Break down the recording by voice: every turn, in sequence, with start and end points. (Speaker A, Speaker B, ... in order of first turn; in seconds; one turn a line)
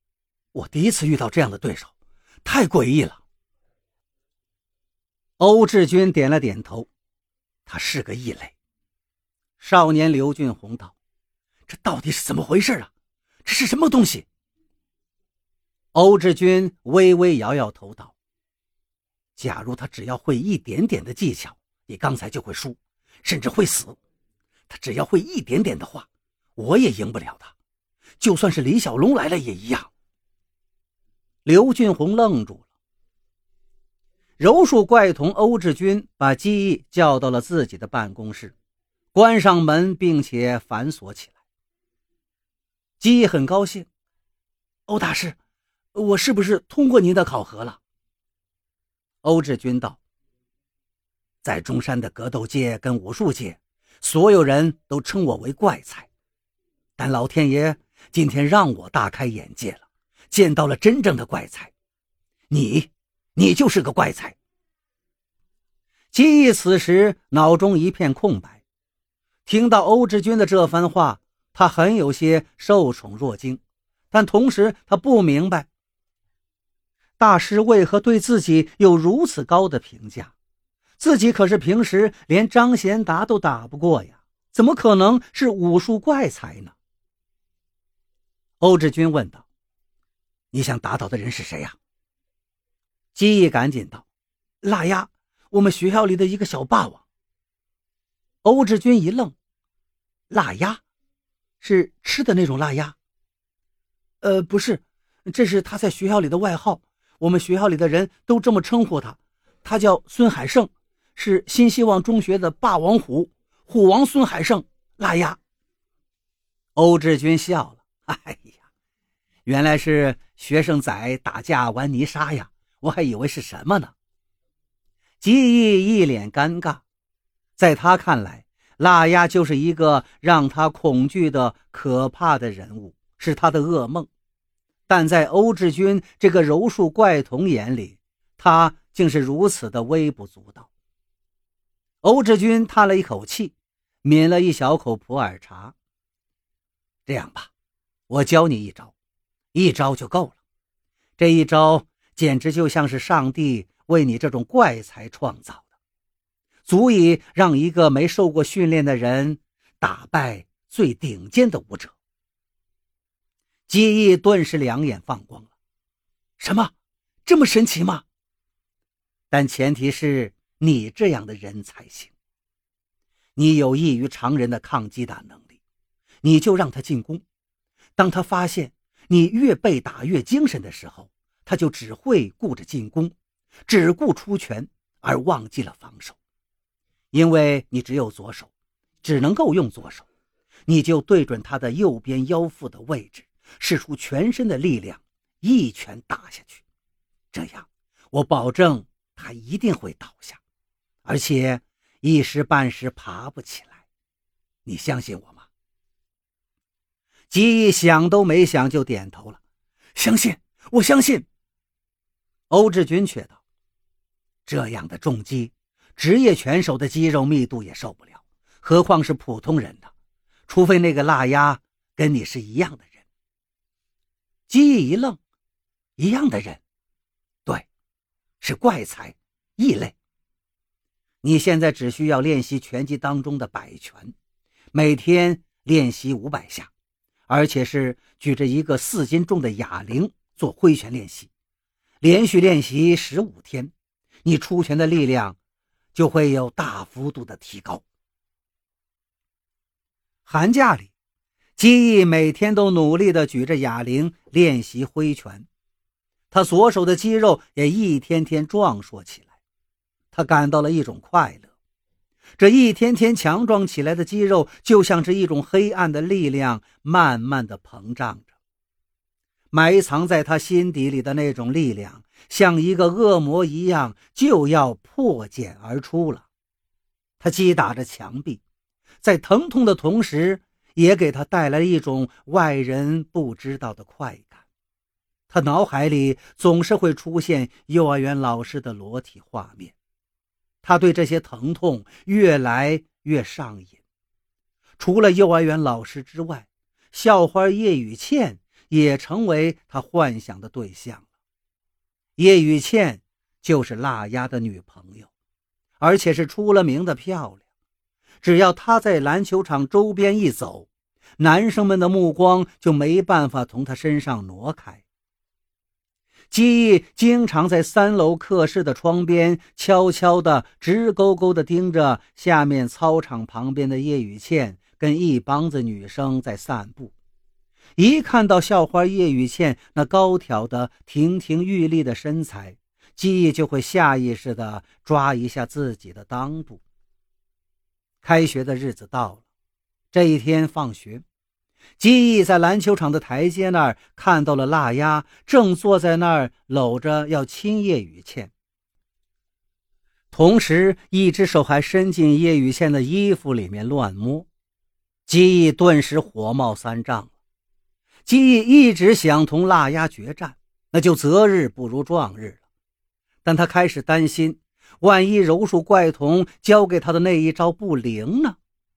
Speaker A: 0.5-1.9
Speaker A: 2.4-3.2
Speaker A: 5.4-6.9
Speaker A: 7.7-8.5
Speaker A: 9.6-10.9
Speaker A: 11.7-12.9
Speaker A: 13.4-14.2
Speaker A: 15.9-18.1
Speaker A: 19.4-24.0
Speaker A: 24.7-27.5
Speaker A: 28.2-29.9
Speaker A: 31.4-32.6
Speaker A: 34.4-38.5
Speaker A: 39.1-41.3
Speaker A: 43.0-43.9
Speaker A: 44.9-45.4
Speaker A: 45.9-47.8
Speaker A: 49.2-50.0
Speaker A: 51.4-56.1
Speaker A: 57.0-61.7
Speaker A: 62.5-64.4
Speaker A: 66.1-68.6
Speaker A: 69.5-75.7
Speaker A: 77.2-80.3
Speaker A: 81.0-86.7
Speaker A: 88.6-89.4
Speaker A: 90.5-91.8
Speaker A: 93.1-94.0
Speaker A: 94.6-97.0
Speaker A: 98.4-99.3
Speaker A: 100.3-100.8
Speaker A: 101.6-103.0
Speaker A: 104.2-115.4
Speaker A: 116.8-118.6
Speaker A: 119.5-123.9
Speaker A: 125.2-126.8
Speaker A: 127.6-134.1
Speaker A: 134.9-140.7
Speaker A: 142.0-145.7
Speaker A: 147.1-147.5
Speaker A: 148.1-148.9
Speaker A: 149.5-150.4
Speaker A: 151.2-155.6
Speaker A: 156.7-161.9
Speaker A: 163.7-165.5
Speaker A: 166.4-166.7
Speaker A: 167.2-168.0
Speaker A: 169.3-172.1
Speaker A: 173.3-175.5
Speaker A: 176.2-177.2
Speaker A: 178.0-183.1
Speaker A: 183.7-186.2
Speaker A: 187.1-188.5
Speaker A: 189.0-190.1
Speaker A: 190.7-196.6
Speaker A: 197.3-200.4
Speaker A: 201.0-203.8
Speaker A: 204.7-205.4
Speaker A: 207.3-209.4
Speaker A: 209.9-211.2
Speaker A: 212.5-213.4
Speaker A: 214.4-219.9
Speaker A: 220.5-222.9
Speaker A: 224.5-225.2
Speaker A: 226.0-226.6
Speaker A: 228.4-229.9
Speaker A: 231.2-234.1
Speaker A: 234.7-236.7
Speaker A: 237.3-241.3
Speaker A: 242.0-243.7
Speaker A: 244.2-245.4
Speaker A: 245.9-247.8
Speaker A: 250.2-250.9
Speaker A: 251.6-255.4
Speaker A: 256.3-259.2
Speaker A: 260.1-261.5
Speaker A: 262.4-268.3
Speaker A: 269.5-276.2
Speaker A: 277.2-278.4
Speaker A: 279.0-284.4
Speaker A: 285.3-289.7
Speaker A: 290.6-293.8
Speaker A: 294.8-301.0
Speaker A: 302.2-305.1
Speaker A: 305.8-307.4
Speaker A: 308.2-310.7
Speaker A: 311.2-314.8
Speaker A: 316.3-326.9
Speaker A: 327.8-336.6
Speaker A: 338.0-339.2
Speaker A: 339.9-341.0
Speaker A: 341.8-348.3
Speaker A: 350.1-354.3
Speaker A: 355.1-357.1
Speaker A: 358.1-362.4
Speaker A: 363.2-368.4